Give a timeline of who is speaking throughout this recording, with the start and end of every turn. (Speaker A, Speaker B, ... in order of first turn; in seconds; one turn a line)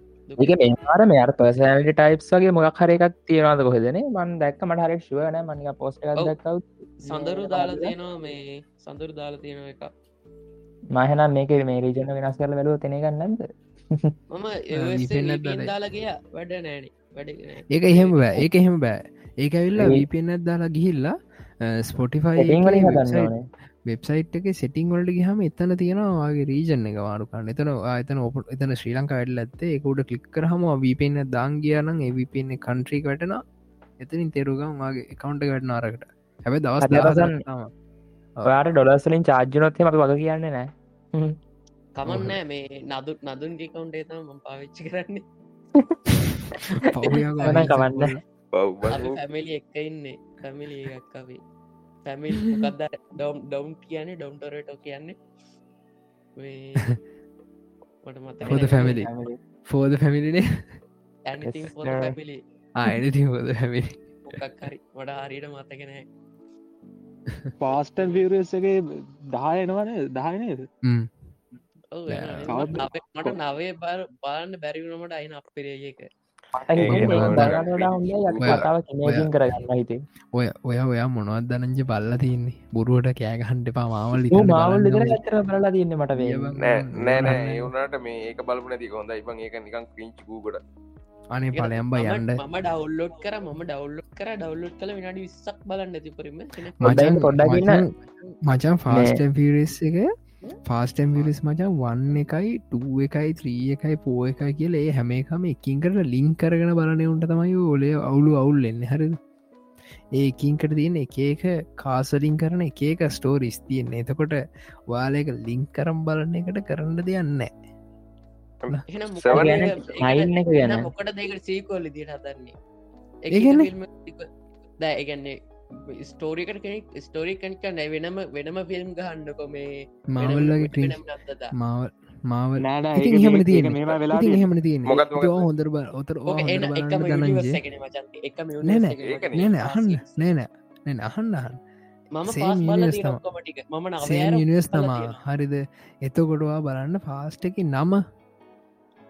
Speaker A: 0.3-0.9
Speaker B: 0.4-7.9
Speaker A: 7.0-9.9
Speaker B: 10.9-14.1
Speaker A: 14.3-18.4
Speaker C: 14.7-15.7
Speaker C: 17.7-23.3
Speaker B: 19.8-20.0
Speaker B: 22.4-23.4
Speaker C: 23.9-33.4
Speaker C: 34.0-37.7
Speaker B: 36.8-37.4
Speaker B: 38.4-41.4
Speaker A: 42.0-45.2
Speaker C: 42.0-42.4
Speaker B: 45.8-48.1
Speaker C: 46.7-48.2
Speaker A: 47.5-47.7
Speaker D: 48.5-49.2
Speaker A: 48.9-51.4
Speaker A: 52.0-55.2
Speaker A: 56.4-56.9
Speaker A: 58.0-59.1
Speaker C: 58.5-59.1
Speaker E: 58.5-59.4
Speaker C: 59.7-60.7
Speaker A: 61.3-62.4
Speaker B: 61.4-62.1
Speaker C: 62.8-64.0
Speaker A: 64.2-66.0
Speaker C: 67.3-67.5
Speaker E: 67.6-68.8
Speaker E: 69.3-70.7
Speaker C: 70.8-71.1
Speaker A: 71.9-76.1
Speaker C: 72.1-72.7
Speaker E: 72.5-73.3
Speaker B: 76.6-80.0
Speaker D: 76.7-78.7
Speaker C: 76.9-77.5
Speaker C: 78.4-79.3
Speaker C: 80.3-85.2
Speaker B: 84.1-86.6
Speaker C: 86.2-87.7
Speaker D: 86.6-90.6
Speaker C: 91.3-92.4
Speaker A: 91.5-96.9
Speaker C: 96.8-100.1
Speaker B: 96.8-97.8
Speaker B: 98.9-99.2
Speaker C: 100.7-109.2
Speaker C: 110.2-117.5
Speaker D: 118.6-119.9
Speaker A: 118.9-122.5
Speaker B: 119.3-120.9
Speaker A: 123.2-124.3
Speaker C: 123.3-123.7
Speaker A: 124.8-131.5
Speaker C: 130.1-131.0
Speaker C: 131.5-137.6
Speaker E: 132.6-134.4
Speaker D: 134.8-135.5
Speaker A: 136.3-140.3
Speaker C: 138.6-141.6
Speaker D: 139.0-139.5
Speaker A: 142.2-145.2
Speaker C: 142.3-143.2
Speaker C: 144.0-148.0